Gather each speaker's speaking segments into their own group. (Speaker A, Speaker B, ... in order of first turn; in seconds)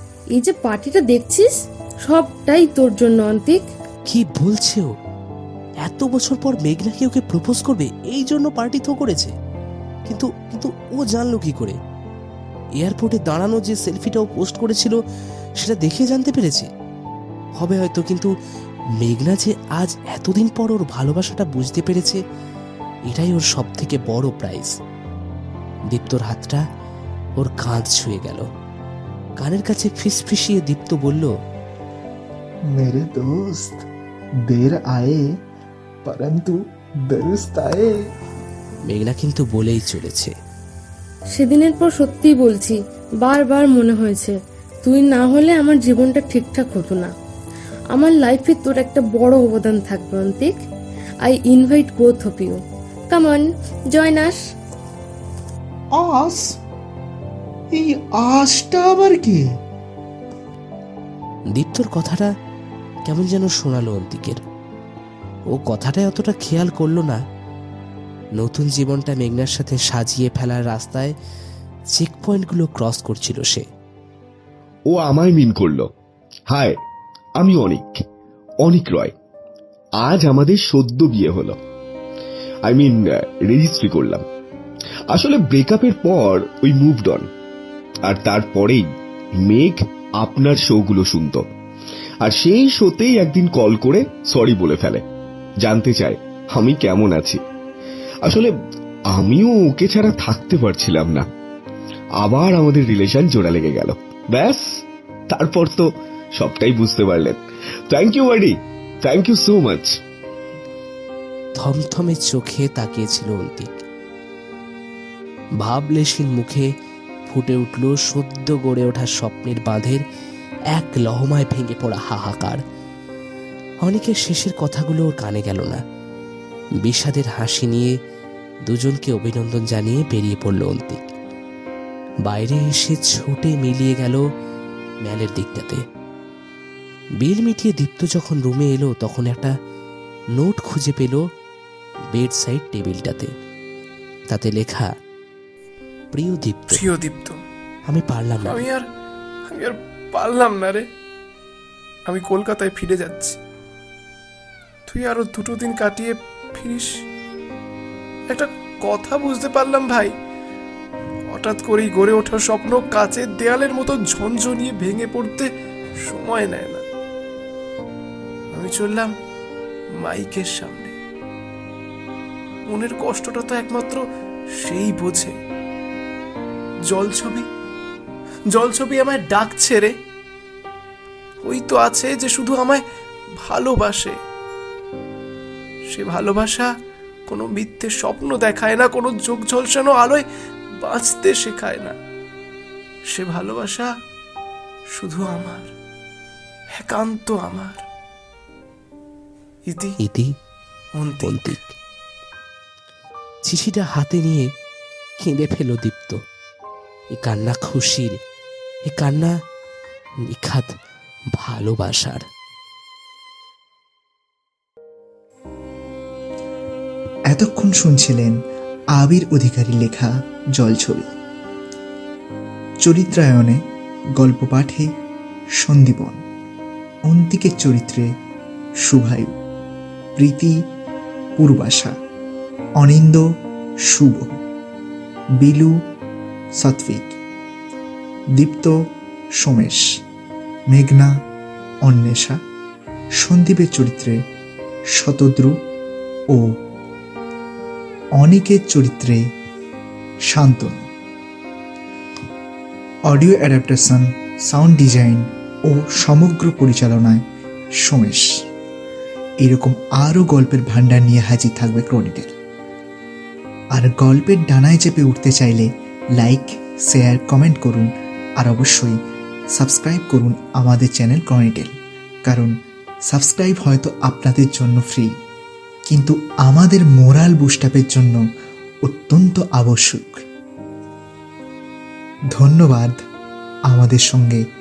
Speaker A: 0.4-1.5, 2.1-3.6, 41.4-47.1, 47.9-50.6, 51.2-52.6, 53.1-54.4
Speaker B: 4.1-4.9, 5.8-9.3, 10.1-11.8, 12.8-15.0, 15.6-16.7, 17.6-18.3, 19.0-22.2, 23.1-24.7, 25.9-26.6, 27.4-28.4, 29.4-31.3, 38.9-40.3, 61.5-62.3, 63.1-64.4, 65.6-67.2, 68.4-71.2, 72.0-73.7, 111.6-113.7, 115.6-116.7, 117.3-120.0, 120.7-122.6, 123.8-125.8, 126.8-127.9, 128.7-131.0, 132.3-134.2, 135.1-135.8, 137.2-139.5, 140.4-141.2, 142.1-143.3, 144.3-144.9, 146.2-146.9, 147.9-148.7, 200.0-200.3, 201.2-201.7, 203.5-204.5, 205.2-206.2, 207.2-208.2, 208.9-209.3, 210.3-210.7, 211.4-212.3
Speaker C: 32.8-33.9, 34.5-35.3, 36.1-38.0, 56.0-56.6, 57.8-59.4, 217.3-218.3, 219.0-221.1, 222.8-223.6, 224.2-224.9, 225.6-226.2, 227.1-228.1, 228.8-229.3, 230.2-230.6, 231.4-231.9, 232.8-233.2, 233.9-234.4, 235.4-235.8, 236.6-237.2, 238.4-238.8, 239.4-239.8, 240.7-241.1, 241.8-242.4, 243.2-244.2, 244.9-245.6, 248.2-249.2, 250.3-250.9, 253.1-257.2, 257.8-258.3, 259.4-262.3, 263.8-269.0, 269.6-271.8, 272.3-272.5, 273.1-275.1, 275.9-278.2, 278.9-280.2, 282.3-283.0, 283.7-284.4
Speaker D: 74.9-75.9, 76.5-76.8, 77.4-78.0, 78.6-79.1, 80.0-81.6, 82.7-84.2, 85.1-87.3, 88.1-88.9, 89.4-91.5, 92.2-95.0, 95.6-97.4, 98.2-98.5, 99.1-101.3, 102.2-110.0
Speaker E: 146.7-147.4, 148.4-148.8, 149.5-150.9, 152.1-153.4, 154.9-157.0, 158.3-160.1, 161.3-165.5, 166.1-166.8, 168.5-169.1, 170.0-170.9, 172.7-174.0, 174.6-175.4, 176.9-177.5, 178.5-180.0, 181.4-182.8, 183.4-184.2, 185.9-186.7, 187.3-190.2, 190.8-192.0, 193.1-193.9, 194.9-195.7, 196.8-197.8, 199.7-199.9, 201.0-201.6